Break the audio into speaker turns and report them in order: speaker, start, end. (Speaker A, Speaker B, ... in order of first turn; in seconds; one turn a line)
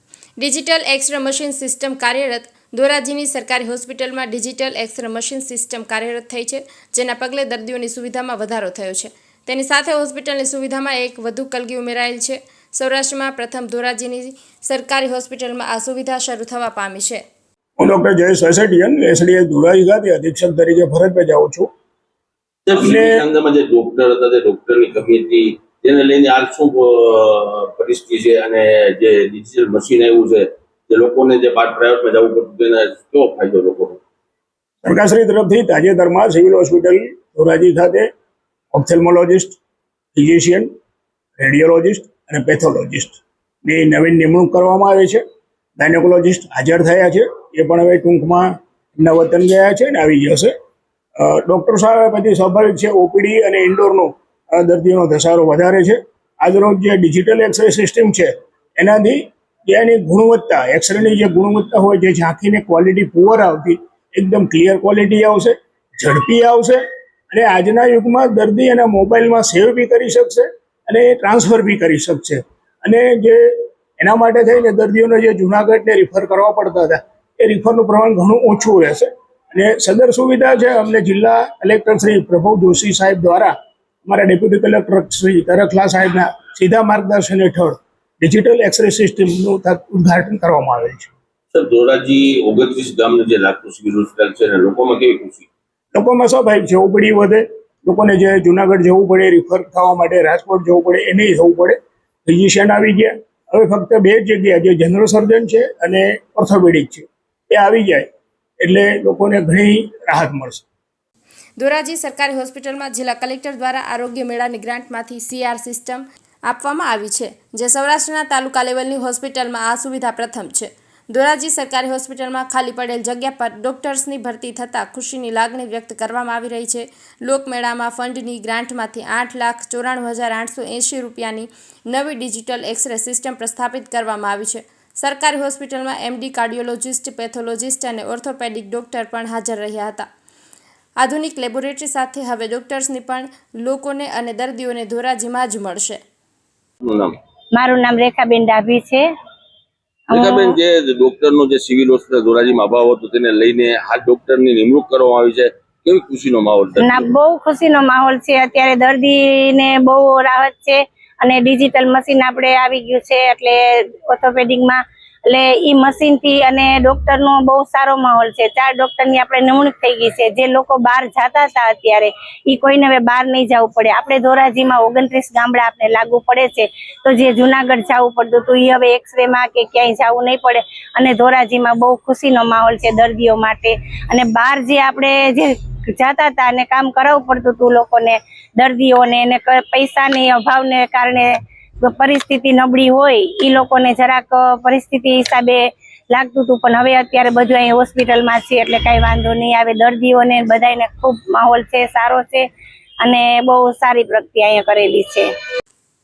Speaker A: 0.4-17.2
Speaker B: 17.8-21.7
Speaker C: 22.7-34.0
Speaker B: 22.8-23.2
Speaker B: 34.8-38.1
Speaker B: 38.7-39.6
Speaker B: 40.1-40.7
Speaker B: 41.4-45.2
Speaker B: 45.8-50.5
Speaker B: 51.2-83.5
Speaker B: 84.0-91.1
Speaker C: 91.5-95.5
Speaker B: 95.9-108.1
Speaker B: 108.6-110.6
Speaker A: 111.6-140.1
Speaker A: 141.0-146.0
Speaker C: 146.8-147.1
Speaker D: 147.5-149.0
Speaker D: 150.1-150.6
Speaker C: 150.1-157.1
Speaker D: 156.8-202.4
Speaker D: 203.0-205.3